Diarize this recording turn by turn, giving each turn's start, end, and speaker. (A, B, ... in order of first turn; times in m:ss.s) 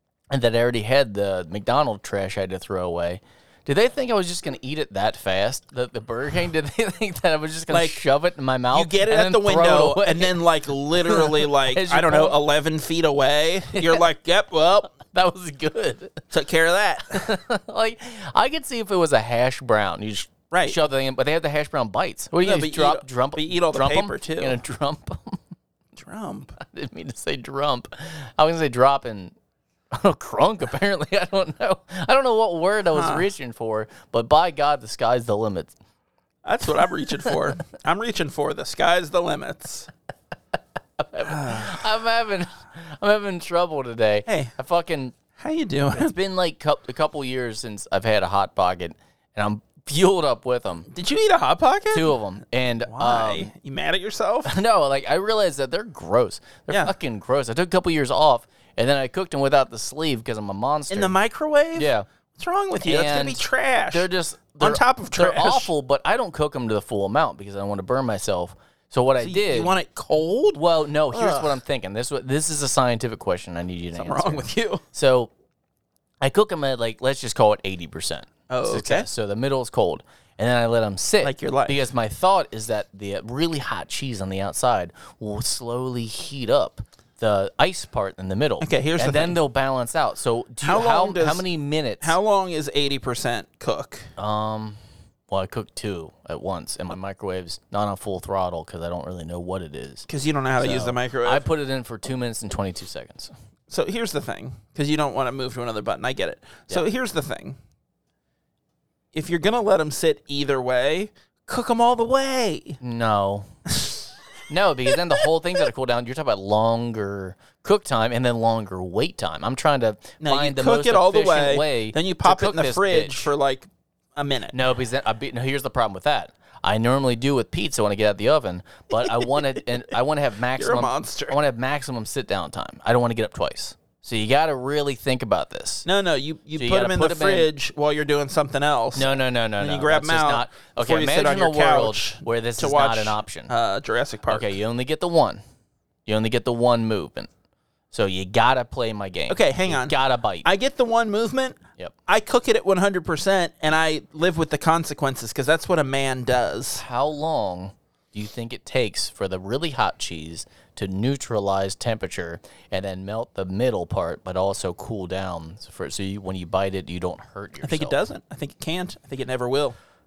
0:00.3-0:10.4 A
0:07.7-0:08.0 B
0:08.7-0:14.9 B
0:11.0-0:12.4 A
0:13.7-0:14.0 A
0:14.9-0:16.2 A
0:16.3-0:17.3 B
0:17.1-0:25.4 A
0:20.5-0:20.8 B
0:22.4-0:24.6 B
0:26.0-0:26.6 B
0:26.6-0:29.4 A
0:29.9-0:35.8 A
0:32.9-0:33.3 B
0:36.4-0:39.9 B
0:41.0-0:45.2 A
0:41.2-0:41.8 B
0:44.3-0:44.5 B
0:45.4-0:46.1 B
0:45.9-0:50.9 A
0:50.9-0:52.2 B
0:51.9-0:53.5 A
0:52.8-0:54.5 B
0:54.5-1:01.2 A
1:00.9-1:04.1 B
1:01.8-1:02.1 A
1:02.8-1:09.8 A
1:04.6-1:05.7 B
1:09.2-1:11.6 B
1:10.5-1:15.3 A
1:14.0-1:14.8 B
1:16.2-1:32.2 A
1:18.5-1:19.1 B
1:21.2-1:21.8 B
1:28.6-1:29.4 B
1:30.6-1:31.4 B
1:32.0-1:34.1 B
1:34.2-1:40.1 A
1:40.1-1:41.4 B
1:40.6-1:43.3 A
1:43.7-1:47.6 B
1:49.1-1:52.8 B
1:52.8-1:53.5 A
1:54.5-2:03.3 A
1:54.9-1:55.2 B
2:00.2-2:04.6 B
2:04.5-2:15.8 A
2:10.6-2:11.4 B
2:15.8-2:24.5 B
2:16.6-2:17.5 A
2:19.0-2:23.5 A
2:24.3-2:25.4 A
2:26.1-2:27.3 A
2:27.9-2:30.5 A
2:29.3-2:36.8 B
2:36.8-2:48.0 A
2:47.6-2:49.8 B